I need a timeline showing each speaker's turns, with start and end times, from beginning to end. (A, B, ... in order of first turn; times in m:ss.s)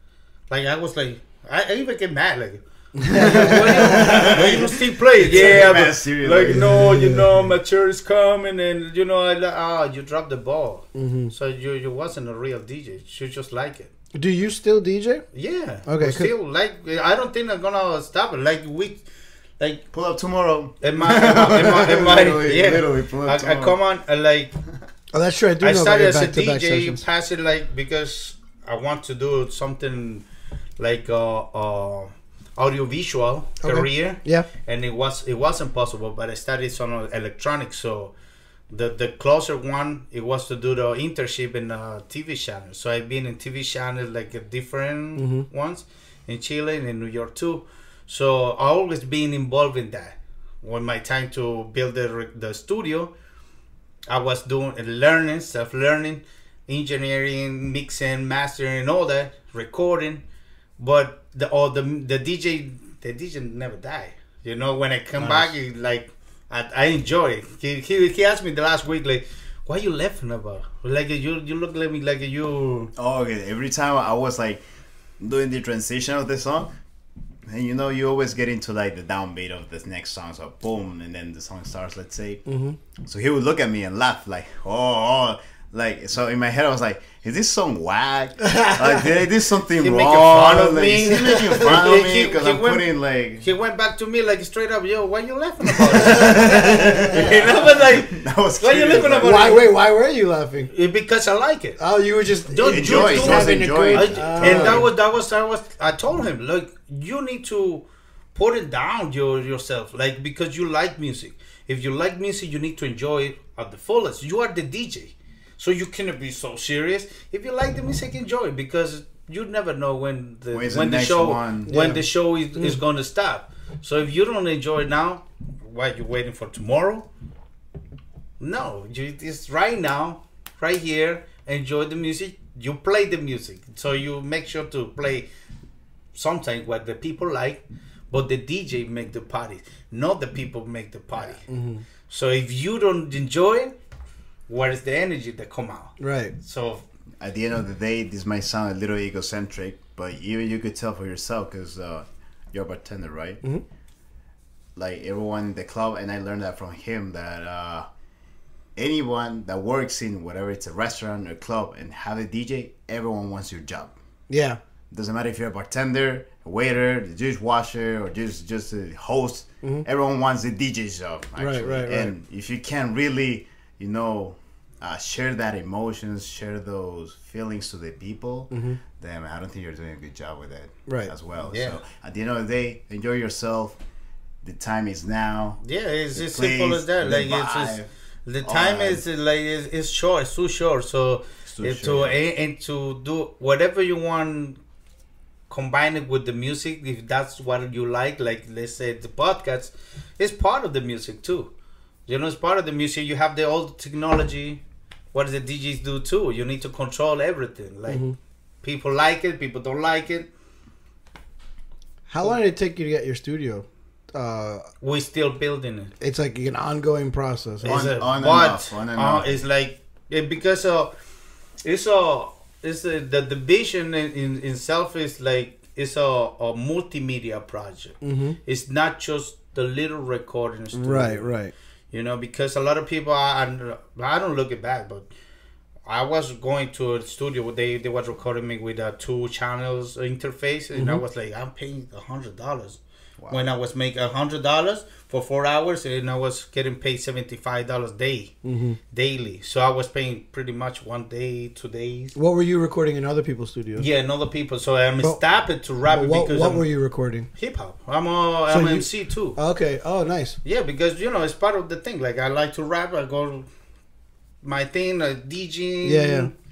0:00.5-0:13.9 A
0:03.0-0:04.5 B
0:03.2-0:06.8 C
0:06.5-0:07.3 B
0:10.9-0:11.3 B
0:14.1-0:15.2 B
0:15.3-0:19.0 A
0:15.8-0:16.3 B
0:19.9-0:23.8 C
0:20.8-0:24.5 A
0:25.1-0:27.0 B
0:25.6-0:30.2 A
0:30.8-0:38.1 A
0:33.6-0:34.5 B
0:38.7-0:53.1 A
0:45.2-0:45.5 B
0:54.1-1:00.2 A
1:00.8-1:12.9 A
1:05.2-1:05.5 C
1:13.0-1:14.6 C
1:15.2-1:16.7 C
1:17.5-1:22.4 C
1:22.4-1:22.8 B
1:23.0-1:33.5 C
1:28.4-1:29.1 B
1:29.8-1:32.9 A
1:31.4-1:31.6 B
1:33.4-1:39.6 A
1:35.8-1:39.4 C
1:36.0-1:37.3 B
1:39.2-1:40.7 B
1:40.7-1:41.8 A
1:41.8-1:44.9 B
1:42.5-2:07.1 A
1:42.7-1:44.8 C
2:00.5-2:01.7 C
2:01.6-2:02.8 B
2:08.4-2:15.3 A
2:16.1-2:21.5 A
2:21.5-2:21.8 B
2:22.1-2:23.7 A
2:24.5-2:26.8 A
2:26.0-2:26.3 B
2:27.2-2:33.4 C
2:34.8-2:37.9 C
2:38.8-2:43.9 C
2:44.3-2:44.6 B
2:44.9-3:03.8 C
2:51.4-2:52.2 B
2:58.5-2:58.8 B
3:00.9-3:01.1 B
3:01.4-3:01.8 A
3:04.4-3:05.6 C
3:05.6-3:14.6 A
3:06.1-3:07.9 C
3:08.4-3:09.0 C
3:11.4-3:12.2 C
3:15.5-3:21.5 A
3:22.1-3:24.6 A
3:25.1-3:28.0 A
3:27.9-3:28.2 B
3:28.6-3:30.3 A
3:32.1-3:34.6 B
3:34.8-3:35.9 A
3:36.0-3:37.9 B
3:37.6-3:40.9 A
3:37.6-3:39.4 C
3:41.6-3:51.3 A
3:48.0-3:48.4 B
3:50.7-3:51.5 B
3:51.9-3:55.1 A
3:55.9-4:08.3 A
4:00.7-4:01.0 B
4:03.2-4:03.4 C
4:08.4-4:08.8 B
4:08.9-4:12.2 A
4:12.1-4:13.9 B
4:13.8-4:16.6 A
4:15.9-4:17.3 B
4:17.4-4:19.4 A
4:18.5-4:20.4 B
4:20.4-4:23.5 A
4:24.4-4:26.3 A
4:25.8-4:26.3 B